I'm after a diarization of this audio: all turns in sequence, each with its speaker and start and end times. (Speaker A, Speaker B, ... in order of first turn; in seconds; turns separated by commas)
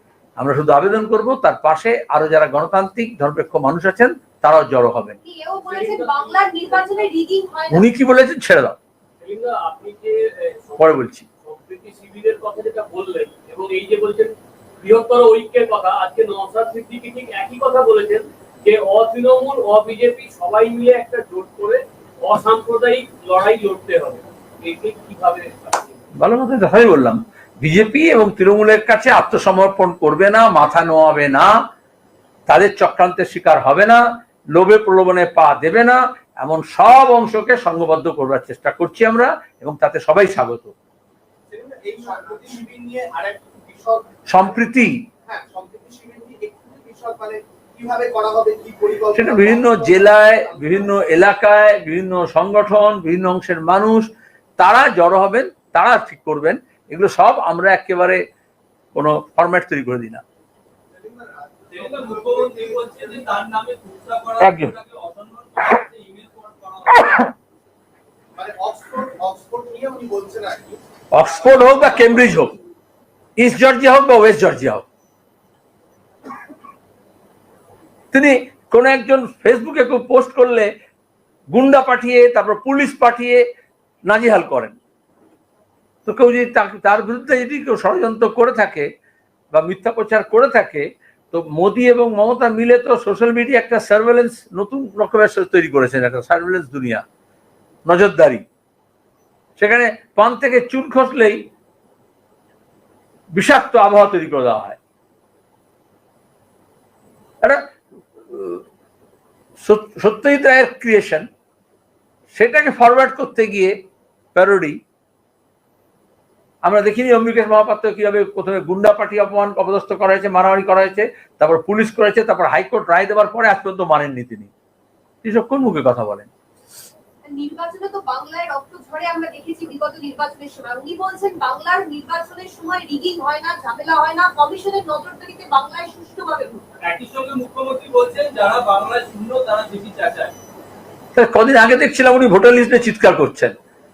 Speaker A: 0.4-5.2, Speaker B: 5.2-7.9, Speaker C: 5.6-7.1, Speaker A: 7.7-8.8, Speaker C: 9.2-26.0, Speaker A: 10.8-11.2, Speaker A: 26.1-31.5, Speaker A: 32.5-34.0, Speaker A: 34.5-40.7, Speaker D: 41.5-44.0, Speaker A: 44.3-45.0, Speaker D: 45.3-51.0, Speaker A: 49.1-58.2, Speaker A: 59.0-60.2, Speaker D: 60.9-63.2, Speaker E: 61.7-67.0, Speaker A: 64.4-64.7, Speaker C: 67.0-67.3, Speaker D: 68.3-72.4, Speaker A: 71.1-72.5, Speaker A: 73.4-74.8, Speaker A: 78.1-80.7, Speaker A: 81.5-83.4, Speaker A: 84.1-84.8, Speaker A: 86.1-88.9, Speaker A: 89.5-97.0, Speaker A: 97.9-98.4, Speaker A: 99.6-101.4, Speaker A: 103.3-104.8, Speaker A: 108.3-108.6, Speaker A: 109.6-111.2, Speaker A: 112.3-113.7, Speaker A: 114.3-114.8, Speaker A: 116.6-124.5, Speaker A: 125.2-126.3, Speaker B: 127.2-136.8, Speaker E: 136.8-140.4, Speaker A: 141.1-143.5